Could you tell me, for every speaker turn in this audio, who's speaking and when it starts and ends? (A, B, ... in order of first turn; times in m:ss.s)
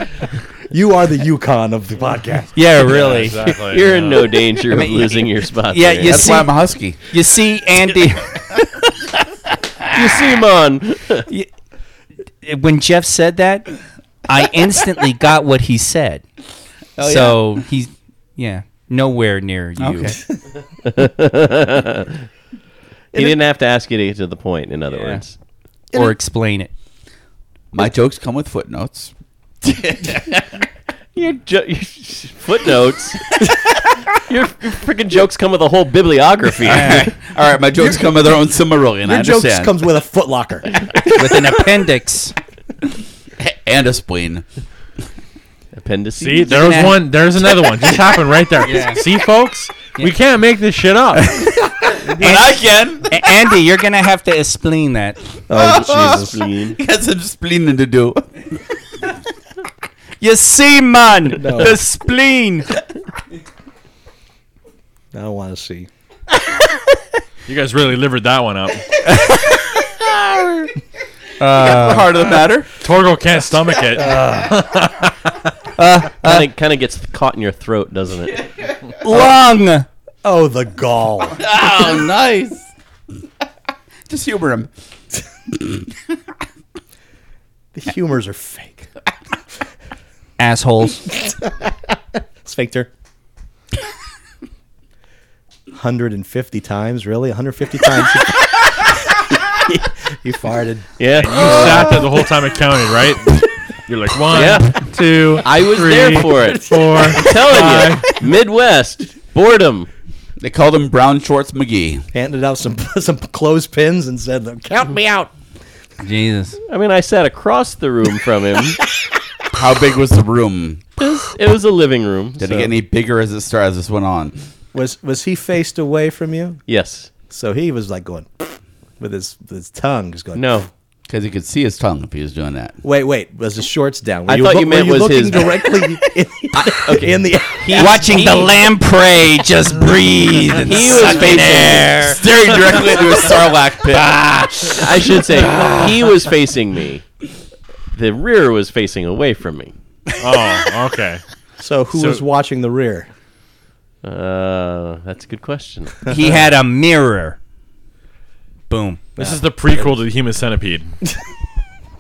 0:00.7-0:02.6 A
0:02.6-0:03.6 B
0:02.8-0:04.3 C
0:03.5-0:06.4 D
0:04.7-0:08.4 B
0:06.0-0:07.0 E
0:09.9-0:11.3 D
0:12.4-0:13.7 B
0:14.3-0:16.2 B
0:17.0-0:17.4 E
0:17.0-0:20.2 B
0:19.8-0:20.2 E
0:20.8-0:22.1 D
0:23.1-0:25.4 D
0:24.9-0:25.2 B
0:25.9-0:26.7 B
0:27.7-0:29.1 E
0:29.6-0:30.4 E
0:31.2-0:33.4 D
0:34.1-0:37.1 D
0:36.6-0:39.8 E
0:36.7-0:37.1 B
0:39.0-0:41.0 A
0:41.1-0:42.4 B
0:43.4-0:44.5 E
0:45.7-0:46.9 D
0:46.2-0:51.5 C
0:46.5-0:47.0 B
0:48.6-0:49.0 B
0:51.2-0:55.2 B
0:52.0-0:53.1 E
0:55.5-0:56.4 A
0:55.5-0:58.4 E
0:55.6-0:56.8 D
1:00.2-1:02.7 B
1:01.4-1:01.8 A
1:05.1-1:05.9 A
1:07.5-1:09.0 C
1:09.1-1:09.6 B
1:11.4-1:12.1 B
1:11.6-1:12.7 E
1:12.8-1:15.1 C
1:14.0-1:14.6 A
1:15.8-1:16.5 B
1:16.2-1:18.5 D
1:19.0-1:19.9 B
1:20.2-1:21.4 A
1:21.4-1:22.7 E
1:24.1-1:24.7 E
1:25.5-1:25.9 E
1:27.7-1:28.9 A
1:30.4-1:31.0 B
1:31.1-1:32.9 A
1:35.7-1:38.5 A
1:40.2-1:42.1 A
1:41.0-1:42.0 D
1:41.2-1:48.2 C
1:44.3-1:44.8 D
1:45.4-1:49.9 D
1:50.4-1:52.1 E
1:52.1-1:55.3 A
1:56.0-1:56.6 B
1:56.7-1:58.8 D
1:59.5-2:00.8 E
2:01.0-2:02.7 D
2:02.4-2:04.4 E
2:04.7-2:06.6 A
2:06.7-2:07.1 D
2:07.2-2:10.6 A
2:10.4-2:10.7 D
2:11.1-2:12.8 E
2:12.8-2:18.0 A
2:14.3-2:15.8 D
2:16.6-2:18.5 D
2:17.7-2:22.2 B
2:20.6-2:22.2 D
2:21.3-2:24.2 E
2:24.5-2:24.8 B
2:24.6-2:27.0 D
2:27.9-2:29.7 D
2:30.2-2:31.2 C
2:31.6-2:33.1 A
2:31.9-2:32.2 C
2:34.0-2:36.1 D
2:36.1-2:37.4 B
2:38.7-2:39.0 B
2:39.2-2:41.0 C
2:39.2-2:39.9 A